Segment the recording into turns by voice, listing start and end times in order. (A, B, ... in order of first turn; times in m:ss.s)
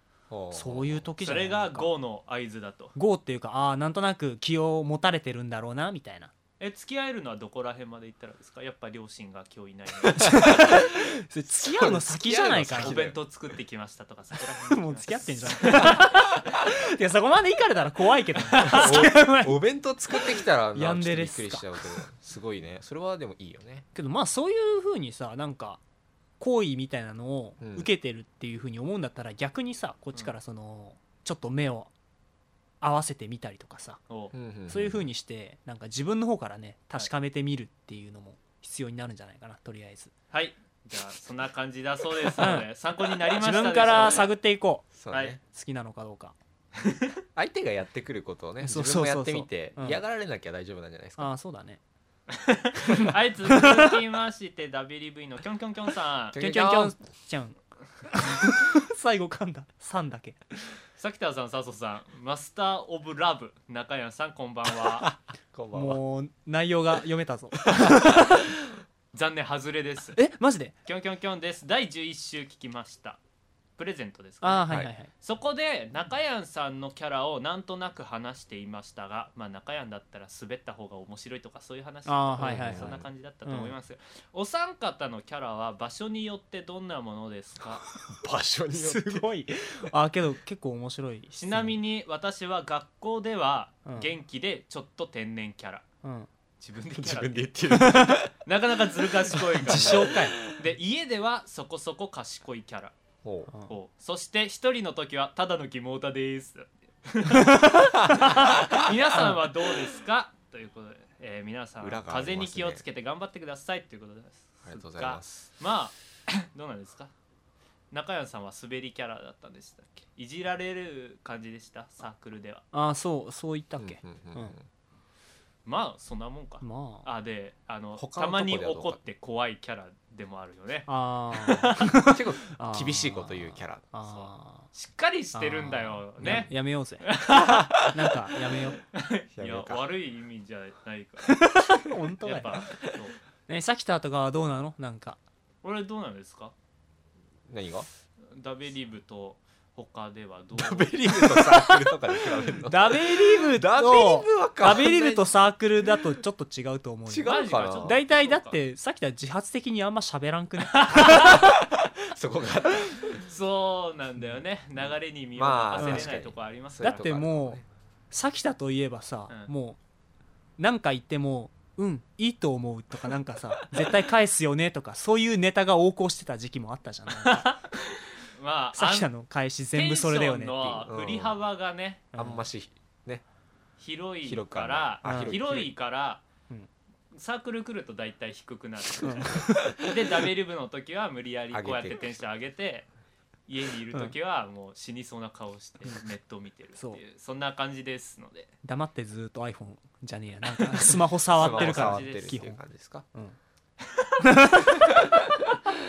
0:00.3-0:01.1 A
0:00.5-0:01.9 B
0:01.2-0:02.9 C
0:03.0-0:06.3 B
0:06.6-0:10.6 C
0:10.0-0:10.9 A
0:10.2-0:13.0 B
0:11.6-0:13.2 A
0:12.8-0:16.0 C
0:14.6-0:19.6 B
0:15.6-0:16.0 A
0:18.5-0:19.0 C
0:18.6-0:23.8 A
0:20.7-0:21.8 B
0:23.9-0:25.8 B
0:26.4-0:31.9 B
0:27.6-0:27.9 A
0:32.8-0:34.0 B
0:34.1-0:34.3 C
0:34.3-0:35.1 A
0:34.7-0:40.1 B
0:40.3-0:44.3 C
0:42.4-0:42.7 B
0:43.4-0:44.9 B
0:44.9-0:45.4 A
0:45.1-0:45.4 C
0:45.5-0:46.3 B
0:46.8-0:47.2 C
0:47.4-0:51.3 A
0:48.6-0:50.0 B
0:51.2-0:51.8 B
0:52.3-0:56.4 C
0:53.0-0:53.9 B
0:56.3-0:56.9 A
0:56.4-1:00.4 B
1:01.0-1:05.1 C
1:04.8-1:06.0 A
1:05.7-1:08.2 B
1:09.1-1:10.2 C
1:10.1-1:10.7 B
1:10.8-1:13.2 C
1:13.8-1:27.8 C
1:14.4-1:15.1 B
1:22.1-1:22.9 B
1:22.4-1:23.1 A
1:23.4-1:23.7 B
1:28.2-1:29.2 A
1:28.7-1:31.8 B
1:31.3-1:35.8 C
1:36.6-1:42.9 C
1:36.9-1:38.3 A
1:37.7-1:38.2 B
1:39.2-1:40.5 A
1:39.6-1:40.4 B
1:43.2-1:43.5 A
1:43.7-1:57.1 C
1:47.6-1:48.6 B
1:47.7-1:48.9 A
1:51.8-1:52.8 A
1:54.6-1:55.5 A
1:57.9-2:02.6 C
2:02.7-2:04.5 B
2:03.8-2:04.6 A
2:05.6-2:11.9 C
2:06.6-2:07.1 B
2:08.0-2:09.0 A
2:10.9-2:14.7 B
2:12.0-2:13.8 A
2:14.0-2:16.5 C
2:15.3-2:17.1 B
2:16.2-2:16.5 A
2:17.0-2:17.9 C
2:17.3-2:18.0 A
2:17.9-2:18.8 B
2:18.9-2:21.5 C
2:19.4-2:19.8 A
2:21.3-2:22.6 B
2:22.2-2:23.2 C
2:23.5-2:25.2 B
2:25.6-2:26.5 C
2:27.5-2:27.9 A
2:28.3-2:31.4 C
2:30.5-2:35.3 A
2:31.4-2:31.8 B
2:32.6-2:41.5 B
2:37.1-2:38.0 A
2:37.2-2:38.6 C
2:40.7-2:41.4 C
2:40.9-2:43.2 A
2:43.2-2:47.0 C
2:45.4-2:47.6 A
2:45.8-2:46.1 B
2:46.8-2:49.8 B
2:50.6-2:57.5 B
2:57.1-2:59.1 C
2:58.7-3:00.9 B
2:59.7-3:02.0 C
3:00.9-3:01.4 A
3:02.1-3:02.4 B
3:02.1-3:03.2 A
3:03.8-3:06.2 C
3:04.2-3:05.7 A
3:05.0-3:05.4 B
3:07.1-3:12.9 C
3:09.0-3:09.8 B
3:09.2-3:09.7 A
3:11.5-3:12.2 A
3:13.5-3:18.5 C
3:18.6-3:22.6 B
3:20.7-3:23.0 A
3:21.3-3:22.4 C
3:24.2-3:24.9 B